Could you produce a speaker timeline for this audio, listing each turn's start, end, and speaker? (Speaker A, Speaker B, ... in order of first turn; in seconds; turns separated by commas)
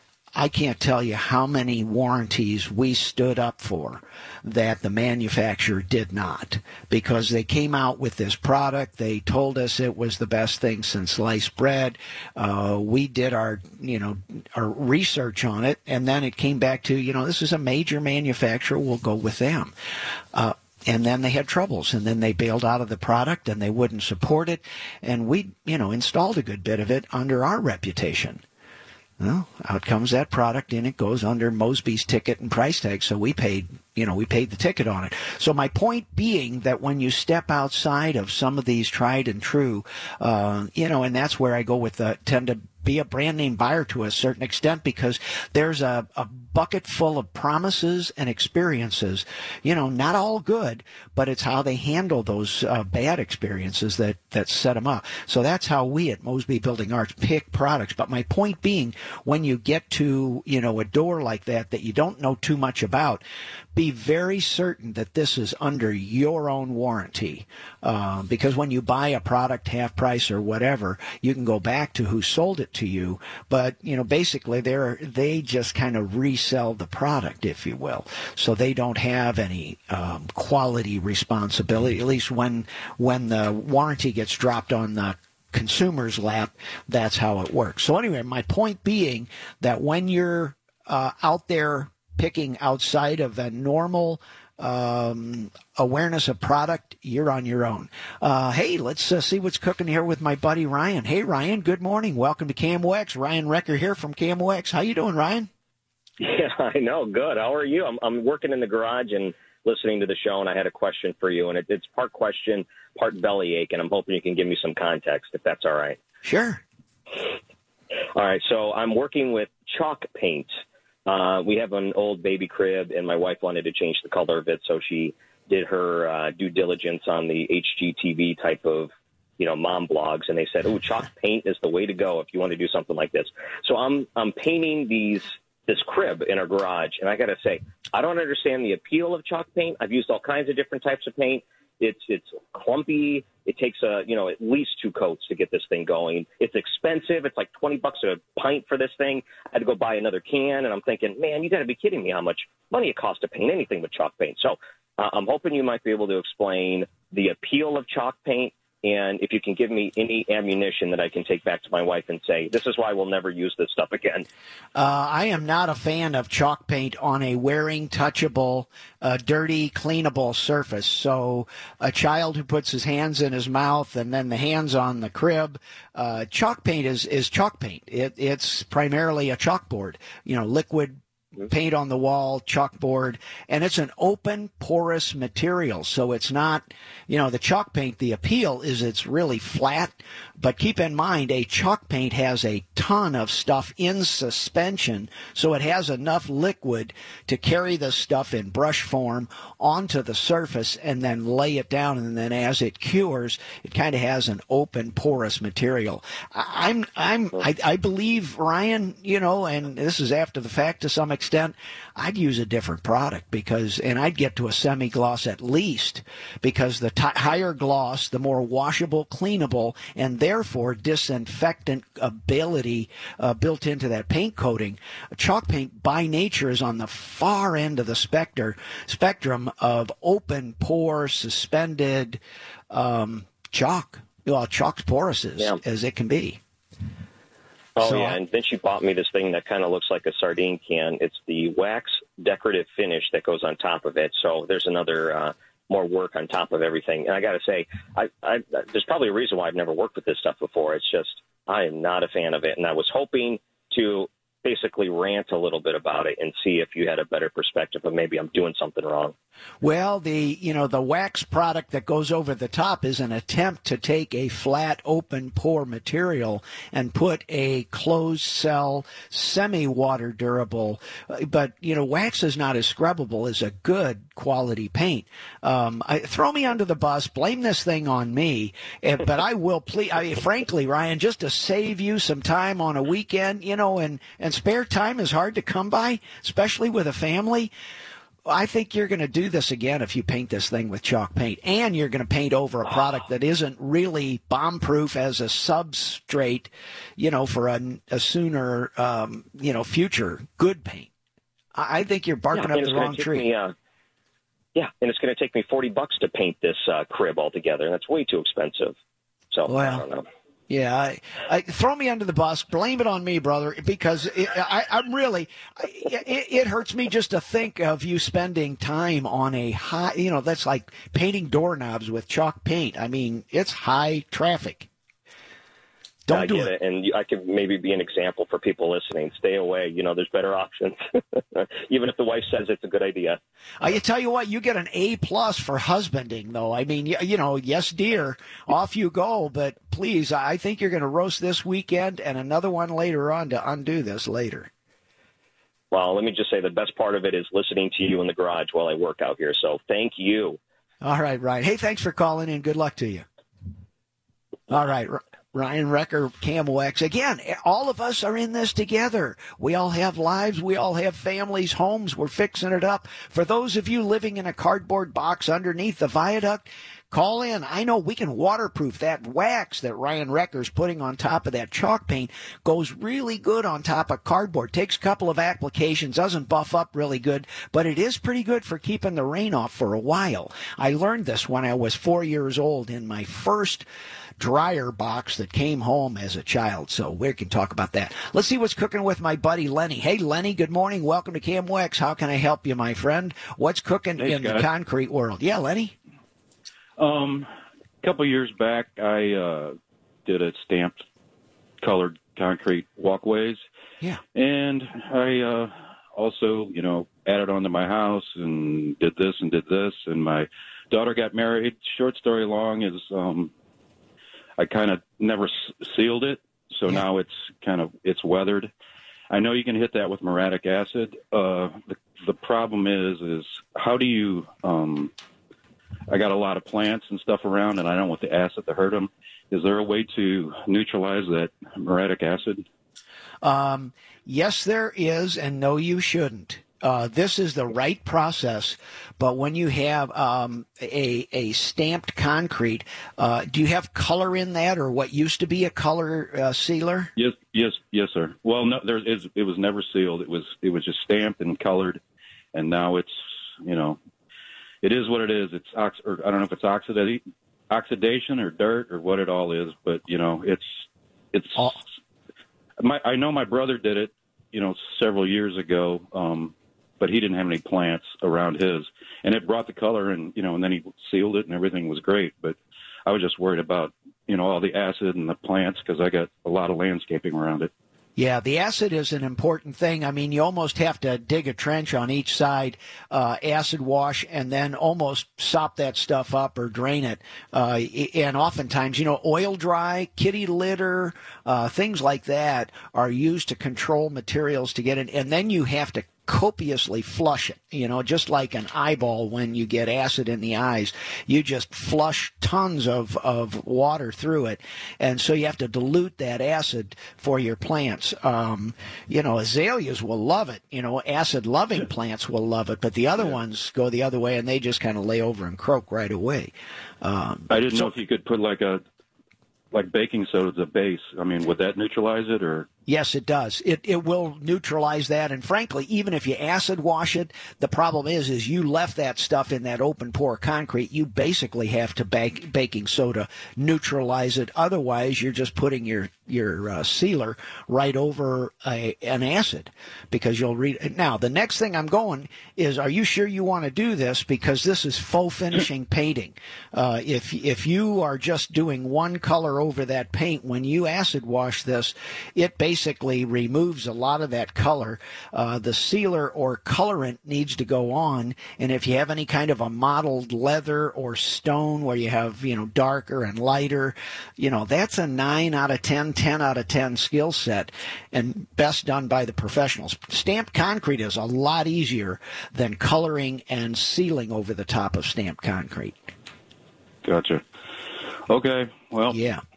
Speaker A: 0.3-19.7, Speaker A: 20.3-28.4, Speaker A: 29.2-63.2, Speaker A: 63.8-105.5, Speaker B: 106.2-116.0, Speaker A: 116.2-116.6, Speaker B: 118.2-120.5, Speaker B: 121.1-164.3, Speaker A: 164.8-232.2, Speaker A: 232.7-236.4, Speaker B: 237.8-259.1, Speaker A: 237.8-238.2, Speaker A: 259.6-287.5, Speaker A: 288.3-300.9, Speaker A: 301.6-303.3, Speaker B: 302.3-303.5, Speaker B: 304.6-308.8, Speaker B: 309.3-310.1, Speaker A: 309.5-309.9, Speaker A: 310.5-324.7, Speaker A: 326.1-326.5, Speaker B: 326.1-330.8, Speaker B: 331.3-333.2, Speaker A: 333.6-344.5, Speaker B: 345.7-350.4, Speaker A: 350.8-353.1, Speaker A: 354.5-383.7, Speaker A: 384.2-395.7, Speaker C: 394.0-394.5, Speaker C: 396.8-397.3, Speaker C: 397.8-400.8, Speaker C: 401.6-403.4, Speaker C: 404.1-413.3, Speaker C: 414.4-418.5, Speaker C: 419.1-424.9, Speaker C: 425.9-432.4, Speaker A: 433.2-446.9, Speaker C: 447.0-451.8, Speaker C: 452.3-453.8, Speaker C: 454.6-461.6, Speaker C: 462.6-477.5, Speaker A: 478.0-517.7, Speaker C: 517.3-518.6, Speaker C: 519.5-522.5, Speaker A: 522.7-575.8, Speaker C: 576.8-577.2, Speaker C: 578.1-579.0, Speaker A: 578.9-579.2